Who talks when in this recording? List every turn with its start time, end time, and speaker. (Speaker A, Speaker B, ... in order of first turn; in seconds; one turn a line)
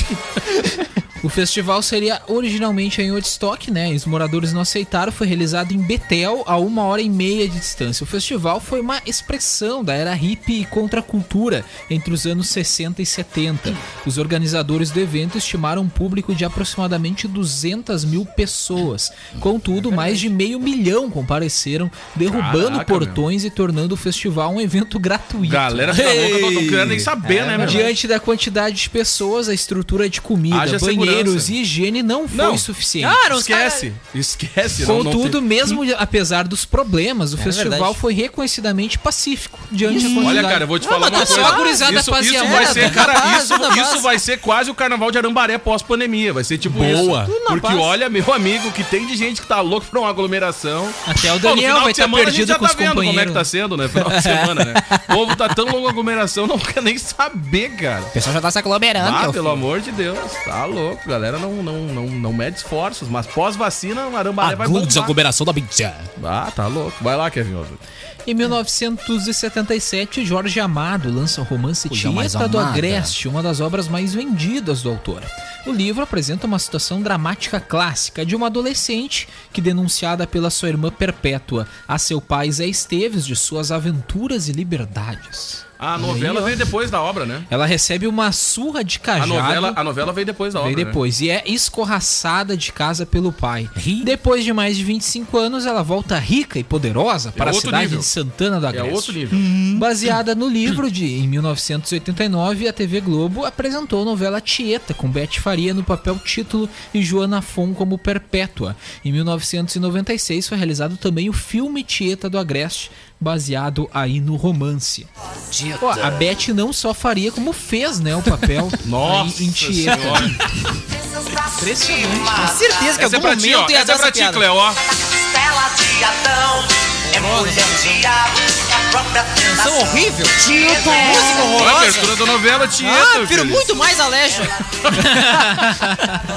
Speaker A: 1.2-33.2
Speaker B: 19.8-20.2
Speaker C: 22.3-23.2
Speaker C: 25.4-27.9
Speaker D: 25.9-26.9
Speaker B: 27.2-27.9
Speaker C: 30.5-31.5
Speaker C: 32.3-32.7
Speaker B: 33.0-33.9
Speaker C: 33.3-35.8
Speaker A: 34.8-43.1
Speaker B: 37.4-38.0
Speaker B: 39.8-44.1
Speaker C: 40.0-58.1
Speaker A: 46.7-47.2
Speaker B: 46.8-47.9
Speaker A: 51.0-53.5
Speaker A: 54.1-54.5
Speaker D: 58.1-59.6
Speaker C: 59.0-65.2
Speaker D: 64.4-66.1
Speaker C: 66.2-67.8
Speaker A: 68.2-86.6
Speaker D: 71.9-73.1
Speaker C: 85.8-87.5
Speaker A: 87.5-89.8
Speaker C: 89.2-91.0
Speaker A: 90.5-99.2
Speaker D: 93.8-94.1
Speaker C: 97.3-98.1
Speaker C: 98.7-99.5
Speaker D: 99.3-99.8
Speaker A: 99.7-115.1
Speaker D: 115.5-116.3
Speaker A: 115.8-120.4
Speaker C: 118.8-120.4
Speaker E: 121.3-122.6
Speaker A: 121.5-122.5
Speaker B: 122.4-124.4
Speaker C: 122.9-124.8
Speaker E: 125.1-129.8
Speaker B: 127.1-127.7
Speaker B: 129.4-132.1
Speaker E: 130.6-131.3
Speaker D: 130.7-131.2
Speaker C: 131.4-133.7
Speaker B: 132.8-134.6
Speaker C: 134.8-135.3
Speaker A: 135.0-136.2